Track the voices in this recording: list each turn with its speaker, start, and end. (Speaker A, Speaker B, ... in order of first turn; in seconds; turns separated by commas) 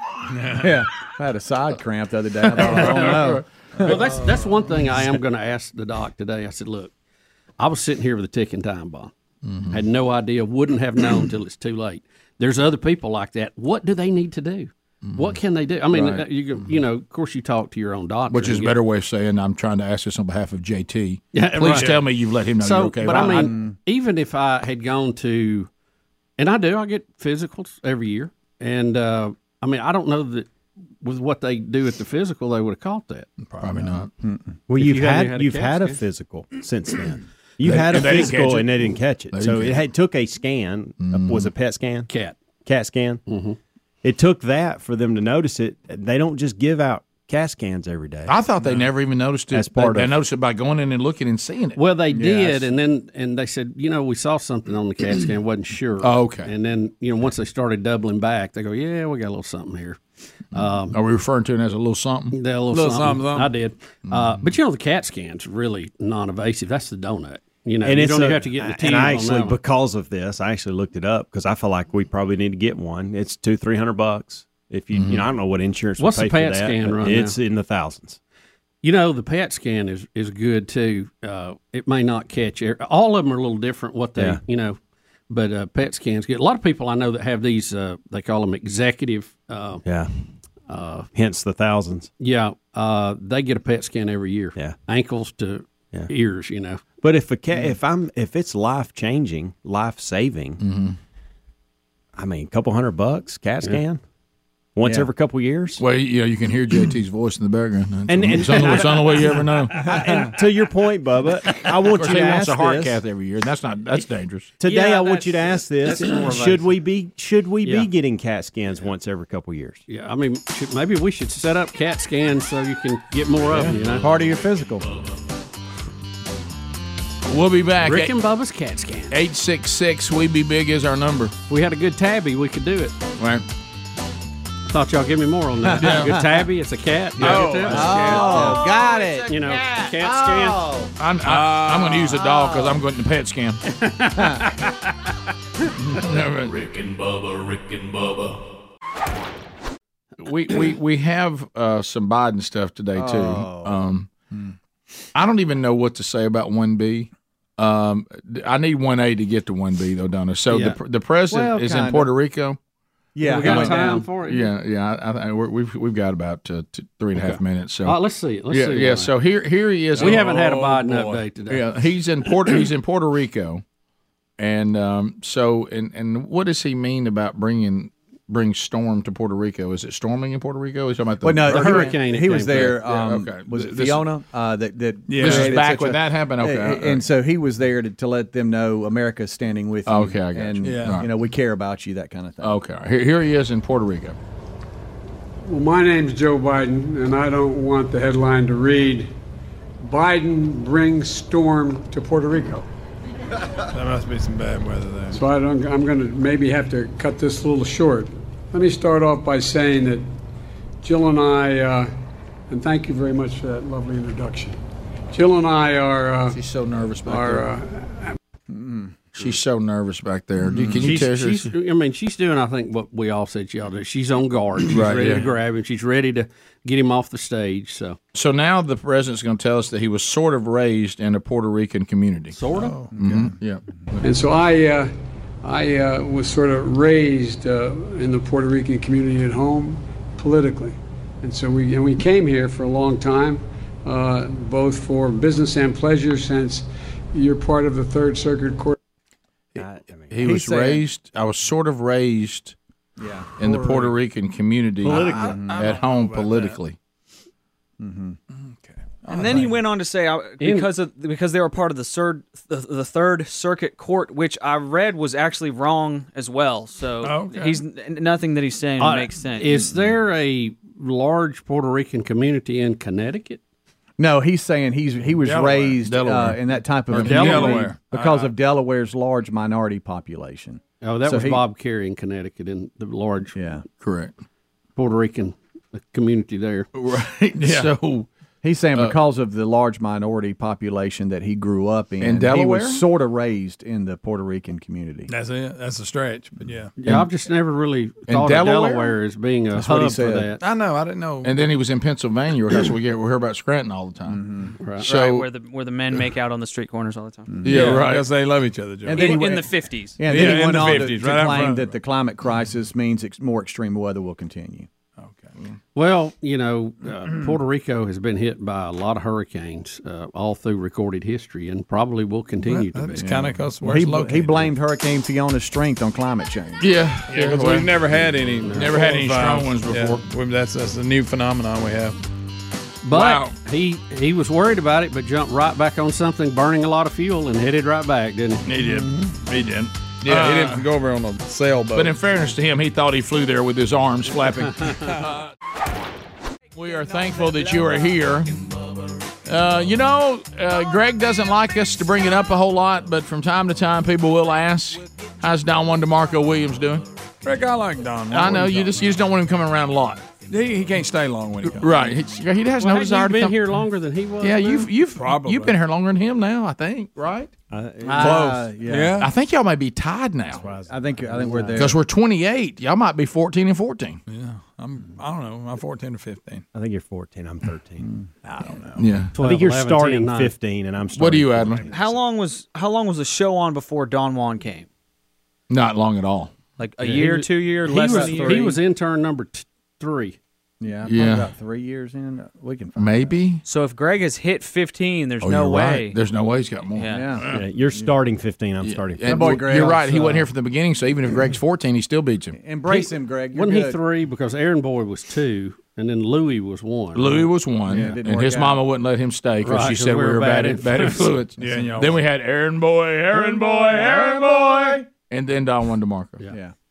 Speaker A: 0.3-0.7, Speaker B: 0.6-3.9, Speaker C: 2.5-3.2, Speaker D: 2.7-3.4, Speaker C: 3.8-6.9, Speaker C: 7.6-9.1, Speaker D: 9.4-9.8, Speaker C: 9.7-18.8, Speaker D: 15.0-15.4, Speaker B: 15.9-16.2, Speaker D: 18.3-23.5, Speaker C: 21.3-22.0, Speaker A: 21.7-22.0, Speaker C: 22.6-25.7, Speaker B: 23.1-23.7, Speaker C: 26.4-30.5, Speaker C: 31.0-33.3, Speaker A: 33.5-34.0, Speaker D: 33.6-34.1, Speaker B: 34.2-34.6, Speaker E: 34.7-42.1, Speaker C: 34.8-36.0, Speaker D: 37.6-39.9, Speaker D: 41.0-41.5, Speaker C: 42.1-42.4, Speaker E: 42.6-43.2, Speaker C: 43.3-43.6, Speaker E: 44.0-48.4, Speaker D: 48.3-51.8, Speaker E: 49.5-50.1, Speaker C: 51.8-60.0, Speaker B: 52.1-52.7, Speaker D: 56.0-56.5, Speaker C: 60.5-61.0, Speaker D: 60.5-62.4, Speaker C: 62.3-69.6, Speaker A: 62.7-63.5, Speaker D: 64.1-64.4, Speaker E: 67.8-78.2, Speaker D: 74.9-75.3, Speaker C: 76.0-77.4, Speaker C: 78.8-89.8, Speaker E: 89.8-90.1, Speaker C: 90.7-91.1, Speaker E: 91.1-92.1, Speaker C: 92.2-96.8, Speaker E: 97.0-100.6, Speaker D: 100.6-101.0, Speaker E: 102.2-104.0, Speaker E: 104.7-105.8, Speaker D: 105.8-110.0, Speaker E: 108.1-112.8, Speaker D: 111.9-114.5, Speaker B: 112.0-112.8, Speaker E: 114.6-119.8, Speaker F: 114.6-116.4, Speaker C: 115.9-116.7, Speaker C: 117.6-117.9, Speaker C: 119.9-124.1, Speaker G: 123.7-125.1, Speaker B: 124.0-124.9, Speaker D: 127.2-128.1, Speaker C: 127.8-129.2, Speaker D: 129.1-131.3, Speaker C: 131.5-132.9, Speaker D: 133.2-133.4, Speaker C: 134.7-138.7, Speaker B: 135.6-136.3, Speaker D: 135.8-136.2, Speaker A: 137.2-138.4, Speaker D: 137.2-137.5, Speaker B: 137.7-139.3, Speaker F: 138.2-140.5, Speaker C: 139.3-140.7, Speaker B: 140.0-140.9, Speaker D: 141.0-143.6, Speaker A: 141.2-142.3, Speaker B: 142.3-142.7, Speaker C: 143.7-144.8, Speaker B: 144.1-144.5, Speaker D: 145.9-146.6, Speaker G: 146.0-148.4, Speaker D: 150.2-154.1, Speaker B: 152.9-154.5, Speaker D: 155.1-162.6, Speaker C: 160.5-160.8, Speaker B: 161.3-162.1, Speaker B: 163.1-164.1, Speaker C: 163.2-164.5, Speaker D: 163.4-170.2, Speaker C: 167.2-169.1, Speaker A: 169.9-171.2, Speaker C: 169.9-171.7, Speaker D: 171.5-173.6, Speaker D: 174.4-181.9, Speaker B: 181.2-192.5, Speaker C: 181.4-182.8, Speaker D: 182.5-184.1, Speaker A: 185.1-185.8, Speaker D: 185.2-187.0, Speaker D: 189.8-191.1, Speaker A: 190.6-191.1, Speaker D: 192.4-194.2, Speaker H: 195.4-199.1, Speaker H: 199.8-202.6, Speaker A: 203.7-205.2, Speaker H: 205.1-210.1, Speaker H: 210.8-211.9, Speaker H: 212.5-214.6, Speaker H: 215.1-216.4, Speaker D: 216.3-217.5, Speaker H: 217.0-218.2, Speaker B: 218.5-219.1, Speaker D: 219.2-221.5, Speaker B: 220.5-220.9, Speaker C: 220.6-228.0, Speaker D: 224.7-225.2, Speaker D: 228.1-232.4, Speaker C: 232.3-232.8, Speaker A: 232.5-232.9, Speaker B: 232.9-233.3, Speaker D: 232.9-234.0, Speaker H: 234.0-234.9, Speaker H: 235.4-248.8, Speaker D: 249.5-252.6, Speaker E: 249.6-250.2, Speaker B: 250.2-250.8, Speaker B: 253.0-253.9, Speaker D: 253.4-256.8, Speaker E: 254.8-255.4, Speaker A: 254.8-256.6, Speaker B: 255.2-255.6, Speaker B: 257.8-258.2, Speaker A: 258.7-259.6, Speaker F: 259.1-269.5, Speaker C: 260.4-260.7, Speaker A: 267.0-267.6, Speaker C: 268.8-273.4, Speaker B: 274.0-281.4, Speaker A: 275.2-275.8, Speaker D: 275.8-276.4, Speaker A: 276.9-278.3, Speaker D: 276.9-277.4, Speaker C: 277.0-277.7, Speaker C: 280.8-283.4, Speaker B: 283.3-283.6, Speaker D: 283.8-284.2, Speaker C: 284.8-286.7, Speaker D: 286.7-288.1, Speaker A: 287.4-287.7, Speaker B: 288.4-295.1, Speaker D: 292.0-292.8, Speaker A: 295.1-296.7, Speaker C: 296.8-300.4, Speaker D: 298.1-298.9, Speaker B: 299.5-300.3, Speaker A: 300.4-301.4, Speaker D: 301.2-304.2, Speaker B: 304.1-304.5, Speaker C: 304.6-304.9, Speaker F: 304.8-307.4, Speaker D: 304.8-305.3, Speaker B: 307.3-307.7, Speaker D: 307.4-308.1, Speaker A: 307.4-309.4, Speaker C: 307.5-307.8, Speaker B: 308.8-314.7, Speaker F: 308.9-310.0, Speaker A: 310.0-311.8, Speaker A: 315.0-315.3, Speaker C: 315.7-323.1, Speaker A: 322.4-324.5, Speaker B: 323.0-326.6, Speaker D: 326.6-327.7, Speaker A: 327.1-332.0, Speaker C: 328.4-328.7, Speaker D: 328.5-330.0, Speaker C: 332.8-338.5, Speaker A: 332.9-333.3, Speaker A: 338.4-342.0, Speaker D: 340.0-340.6, Speaker D: 341.7-345.2, Speaker D: 346.5-348.4, Speaker D: 349.2-356.9, Speaker A: 357.2-358.8, Speaker D: 358.1-360.1, Speaker A: 360.2-361.7, Speaker D: 361.5-363.5, Speaker C: 362.6-364.7, Speaker D: 364.2-367.3, Speaker A: 364.9-365.6, Speaker E: 367.5-368.4, Speaker B: 367.8-369.1, Speaker A: 368.0-369.1, Speaker D: 369.0-370.4, Speaker E: 370.3-371.4, Speaker B: 370.7-371.8, Speaker C: 371.2-371.6, Speaker D: 371.6-374.0, Speaker A: 374.1-376.4, Speaker E: 376.5-377.9, Speaker A: 378.2-378.8, Speaker D: 378.8-379.1, Speaker C: 379.1-380.3, Speaker E: 379.1-382.0, Speaker D: 380.9-381.7, Speaker F: 381.7-384.7, Speaker D: 385.5-386.3, Speaker F: 386.6-388.6, Speaker C: 386.8-390.2, Speaker B: 387.7-388.6, Speaker B: 390.6-393.1, Speaker D: 390.9-391.3, Speaker D: 392.8-393.4, Speaker F: 393.4-396.0, Speaker D: 395.2-396.9, Speaker F: 396.7-397.1, Speaker B: 396.9-397.9, Speaker E: 397.3-399.4, Speaker D: 398.6-402.4, Speaker B: 399.0-400.3, Speaker B: 402.3-403.8, Speaker C: 402.6-407.3, Speaker D: 406.9-416.2, Speaker B: 407.7-408.6, Speaker C: 409.4-411.1, Speaker A: 411.4-412.0